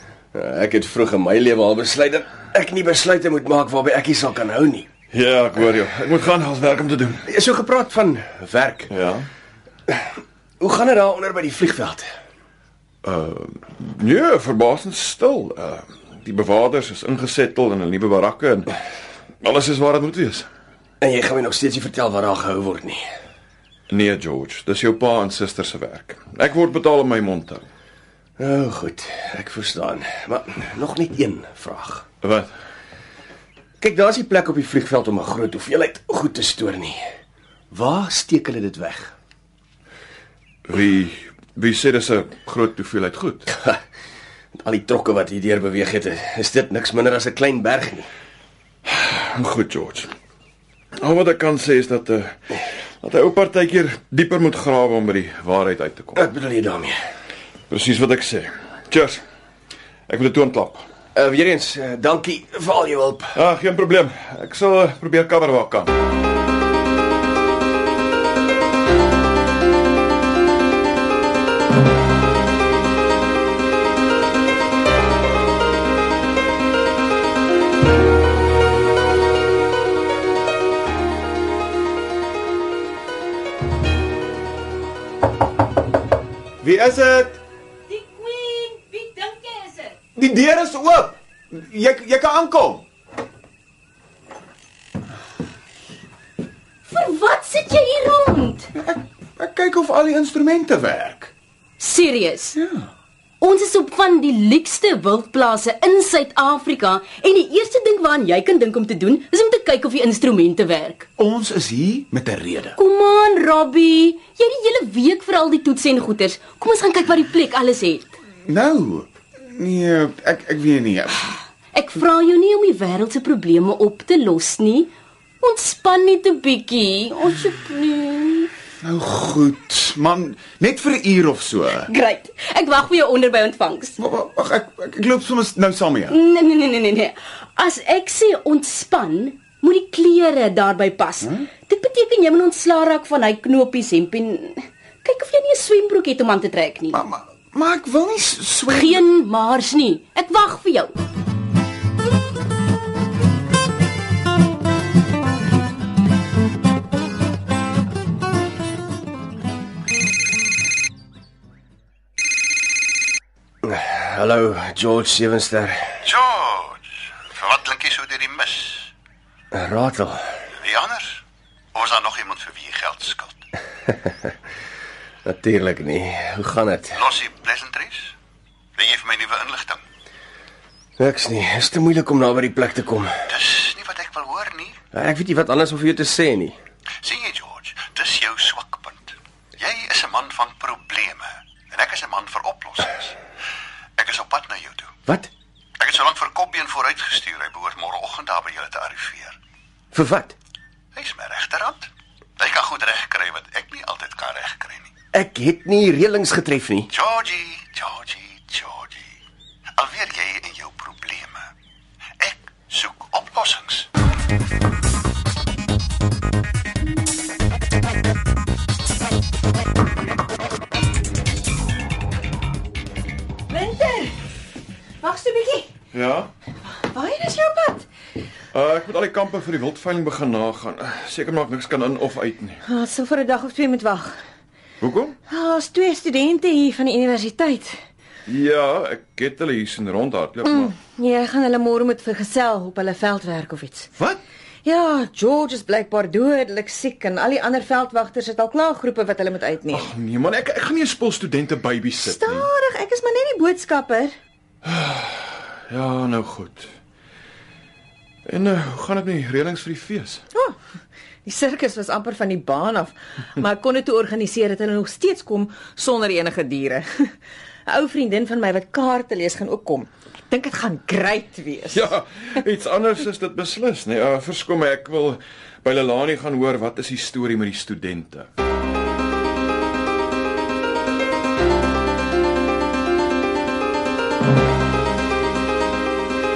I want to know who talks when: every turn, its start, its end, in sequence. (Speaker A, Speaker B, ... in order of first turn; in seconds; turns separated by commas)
Speaker A: 0.3-4.9, Speaker B: 5.1-7.3, Speaker A: 7.3-8.9, Speaker B: 8.9-9.3, Speaker A: 9.9-12.0, Speaker B: 13.0-18.7, Speaker B: 19.4-20.5, Speaker A: 21.0-23.0, Speaker B: 23.9-27.6, Speaker A: 28.4-32.0, Speaker B: 32.2-32.5, Speaker A: 33.8-37.0, Speaker A: 37.7-39.1, Speaker B: 40.7-43.5, Speaker A: 43.5-43.8, Speaker A: 44.5-48.1, Speaker B: 48.9-50.1, Speaker B: 51.0-52.3, Speaker B: 53.0-56.2, Speaker A: 56.1-57.0, Speaker B: 57.7-59.2, Speaker B: 60.1-60.9, Speaker A: 61.1-63.3, Speaker B: 63.3-65.9, Speaker C: 86.6-87.4, Speaker D: 87.9-90.0, Speaker C: 90.2-92.8, Speaker D: 96.8-98.7, Speaker C: 98.7-101.3, Speaker D: 101.8-102.6, Speaker C: 102.5-102.9, Speaker D: 103.4-111.1, Speaker C: 111.2-112.8, Speaker D: 112.8-118.1, Speaker C: 118.5-121.3, Speaker D: 121.7-128.5, Speaker C: 128.8-131.9, Speaker D: 131.8-134.0, Speaker C: 134.0-136.2, Speaker D: 136.1-147.0, Speaker C: 146.9-149.0, Speaker D: 148.7-150.9, Speaker A: 163.6-166.0, Speaker E: 166.0-168.9, Speaker A: 169.5-170.4, Speaker E: 170.6-171.2, Speaker E: 171.7-173.4, Speaker A: 175.2-177.0, Speaker E: 176.9-178.2, Speaker E: 178.8-179.8, Speaker A: 181.0-183.2, Speaker E: 183.3-184.8, Speaker A: 184.9-186.6, Speaker E: 187.0-193.2, Speaker E: 194.0-195.0, Speaker E: 195.8-199.4, Speaker A: 199.9-200.3, Speaker E: 200.9-204.9, Speaker A: 205.1-206.9, Speaker E: 206.9-209.2, Speaker E: 209.8-211.5, Speaker E: 212.2-213.9, Speaker F: 223.5-224.1, Speaker F: 225.0-225.7, Speaker B: 225.9-226.3, Speaker F: 226.7-227.8, Speaker B: 228.5-232.6, Speaker F: 232.7-234.1, Speaker B: 234.8-235.2, Speaker F: 235.3-237.8, Speaker B: 238.2-240.7, Speaker F: 240.4-243.9, Speaker F: 244.6-249.9, Speaker B: 249.7-252.5, Speaker F: 252.0-254.1, Speaker B: 254.6-256.7, Speaker B: 258.2-260.2, Speaker F: 261.2-267.1, Speaker F: 267.6-271.9, Speaker B: 271.7-278.3